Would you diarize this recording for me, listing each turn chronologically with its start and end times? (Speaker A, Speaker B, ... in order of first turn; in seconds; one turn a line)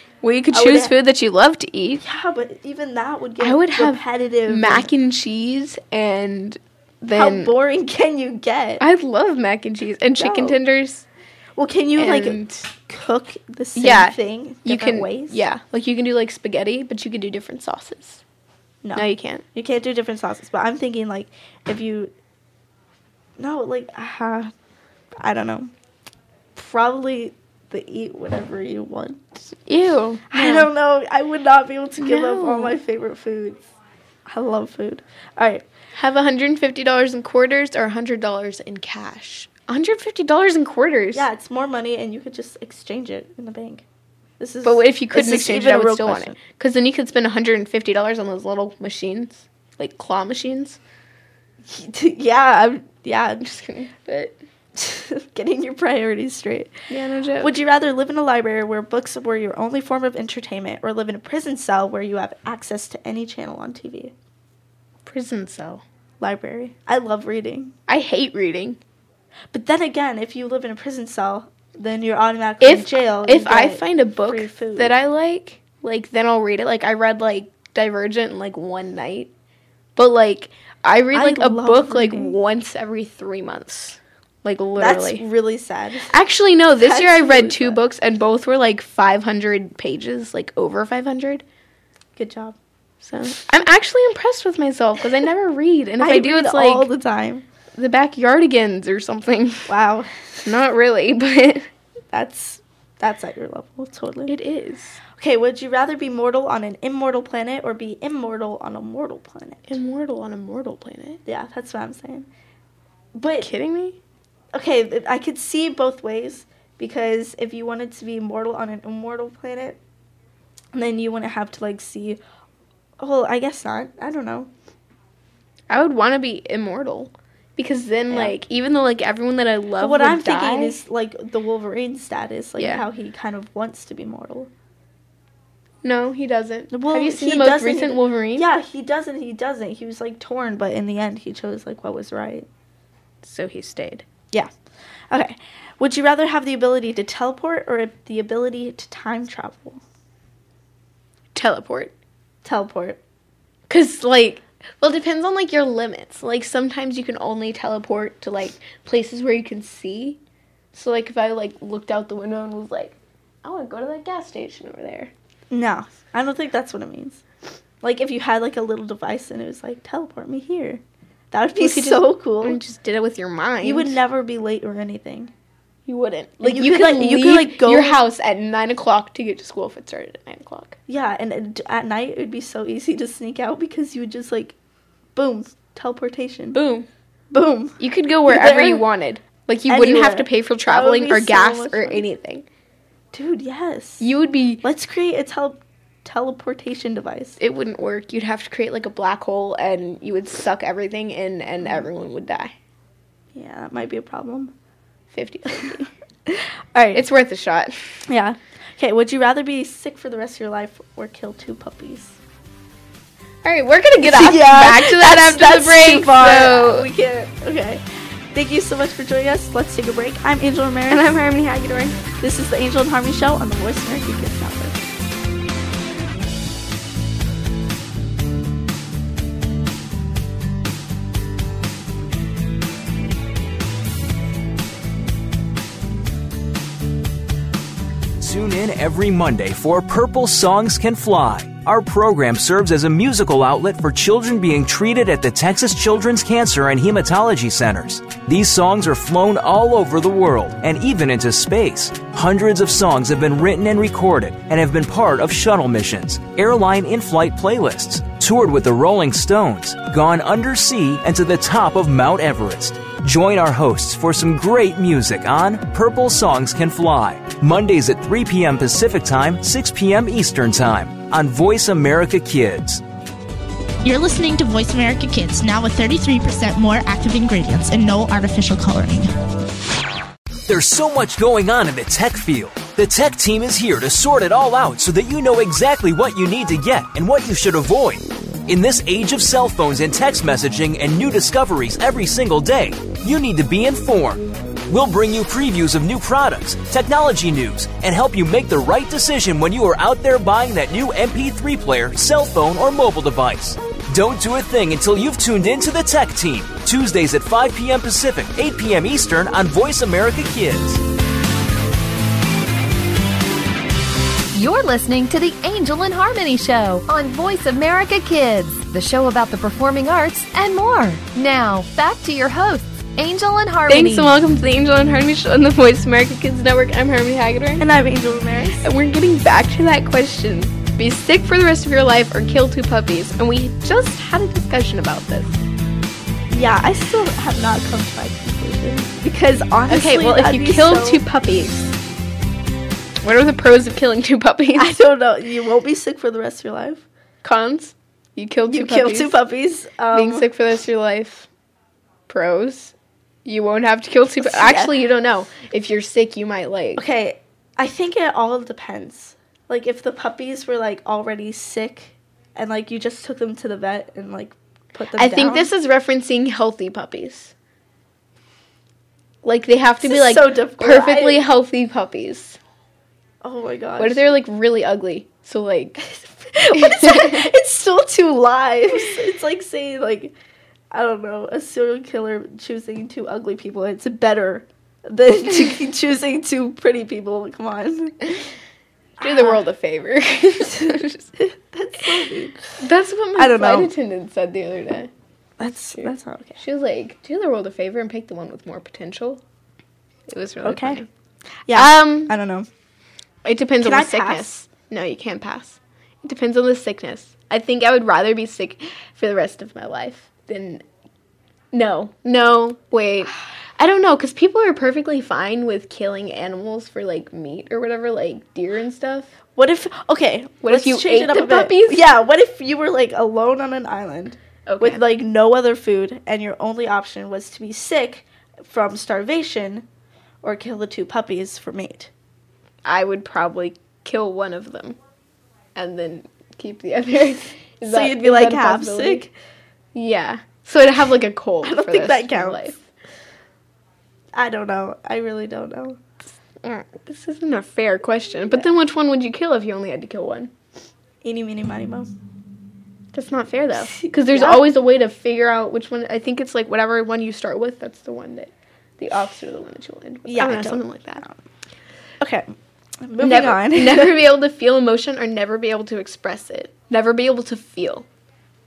Speaker A: 0.2-2.0
Speaker B: 0.5-0.9
Speaker B: 2.0-4.9
Speaker A: 3.4-7.5
Speaker B: 7.1-8.8
Speaker A: 8.8-11.1
Speaker B: 10.2-10.6
Speaker B: 11.6-15.4
Speaker A: 12.0-12.7
Speaker A: 13.8-18.2
Speaker B: 18.8-22.1
Speaker A: 19.0-19.4
Speaker B: 23.4-24.5
Speaker B: 25.2-25.7
Speaker B: 26.6-29.4
Speaker A: 29.7-30.7
Speaker B: 30.3-33.7
Speaker A: 32.0-32.8
Speaker B: 34.3-35.6
Speaker A: 36.0-41.3
Speaker B: 41.1-43.8
Speaker B: 44.4-46.4
Speaker A: 44.6-50.8
Speaker B: 51.6-53.5
Speaker A: 53.4-54.4
Speaker B: 54.8-56.8
Speaker A: 56.9-57.5
Speaker B: 57.4-64.1
Speaker A: 65.0-65.8
Speaker B: 66.2-67.8
Speaker A: 67.9-68.8
Speaker B: 69.5-75.0
Speaker A: 72.6-79.3
Speaker A: 80.0-85.2
Speaker B: 81.1-82.4
Speaker B: 84.8-86.1
Speaker A: 86.1-91.4
Speaker B: 86.8-87.8
Speaker B: 92.2-92.6
Speaker A: 93.0-96.9
Speaker B: 96.0-97.5
Speaker A: 97.8-99.7
Speaker B: 99.7-100.2
Speaker A: 100.5-101.7
Speaker B: 102.1-104.3
Speaker A: 104.3-105.0
Speaker B: 105.2-109.8
Speaker A: 109.7-111.2
Speaker B: 111.3-112.3
Speaker B: 113.2-113.5
Speaker A: 113.4-114.0
Speaker B: 114.5-119.8
Speaker B: 120.7-122.2
Speaker B: 123.0-124.5
Speaker A: 125.7-130.8
Speaker B: 128.1-128.4
Speaker B: 129.8-134.5
Speaker A: 132.6-132.8
Speaker A: 135.8-138.5
Speaker B: 136.7-142.5
Speaker A: 143.2-144.1
Speaker B: 145.1-149.8
Speaker A: 151.3-151.9
Speaker B: 152.4-153.0
Speaker A: 153.7-160.2
Speaker A: 160.7-165.1
Speaker B: 165.5-167.2
Speaker B: 167.8-172.6
Speaker A: 171.6-174.0
Speaker B: 173.6-175.3
Speaker A: 175.9-180.8
Speaker B: 176.4-178.0
Speaker B: 180.9-184.6
Speaker B: 185.2-186.6
Speaker A: 186.5-186.9
Speaker B: 187.3-188.9
Speaker A: 187.8-192.4
Speaker B: 189.7-192.1
Speaker B: 193.1-194.1
Speaker A: 194.0-194.7
Speaker B: 194.6-197.4
Speaker A: 197.4-202.5
Speaker B: 203.3-204.5
Speaker A: 205.1-205.9
Speaker B: 205.7-207.0
Speaker A: 206.9-207.8
Speaker B: 208.1-212.2
Speaker A: 213.4-216.9
Speaker B: 214.0-221.1
Speaker A: 220.9-222.0
Speaker B: 222.1-224.8
Speaker C: 238.2-272.8
Speaker D: 273.8-279.1
Speaker C: 280.5-310.8
Speaker E: 314.3-324.1
Speaker A: 323.7-327.7
Speaker B: 327.6-328.7
Speaker A: 328.6-335.4
Speaker B: 336.3-341.0
Speaker A: 339.7-341.7
Speaker A: 343.0-344.8
Speaker B: 344.6-346.9
Speaker A: 347.2-349.2
Speaker B: 348.5-350.3
Speaker A: 349.9-351.3
Speaker A: 352.1-356.8
Speaker B: 354.2-354.8
Speaker B: 356.8-365.5
Speaker A: 365.0-367.3
Speaker A: 369.2-372.4
Speaker B: 369.8-371.3
Speaker B: 373.2-374.0
Speaker A: 373.8-375.9
Speaker B: 375.8-380.1
Speaker A: 376.5-377.3
Speaker B: 380.7-388.2
Speaker B: 389.0-389.4
Speaker A: 389.0-391.0
Speaker B: 390.5-392.5
Speaker A: 392.6-394.9
Speaker B: 393.2-393.7
Speaker B: 395.4-396.4
Speaker A: 395.8-399.2
Speaker A: 400.1-400.9
Speaker B: 400.4-400.8
Speaker B: 401.5-402.5
Speaker A: 401.5-402.1
Speaker A: 403.2-410.6
Speaker B: 403.6-404.3
Speaker A: 411.5-419.1
Speaker B: 419.4-429.7
Speaker A: 420.4-421.9
Speaker A: 424.5-424.8
Speaker B: 430.2-431.9
Speaker A: 432.6-434.8
Speaker A: 435.6-439.1
Speaker B: 437.6-439.1
Speaker A: 439.8-442.6
Speaker B: 441.4-442.5
Speaker B: 444.1-445.8
Speaker A: 446.4-450.3
Speaker B: 451.0-451.9
Speaker A: 452.9-461.1
Speaker B: 453.8-454.4
Speaker B: 460.1-461.2
Speaker B: 462.0-464.0
Speaker A: 463.0-467.9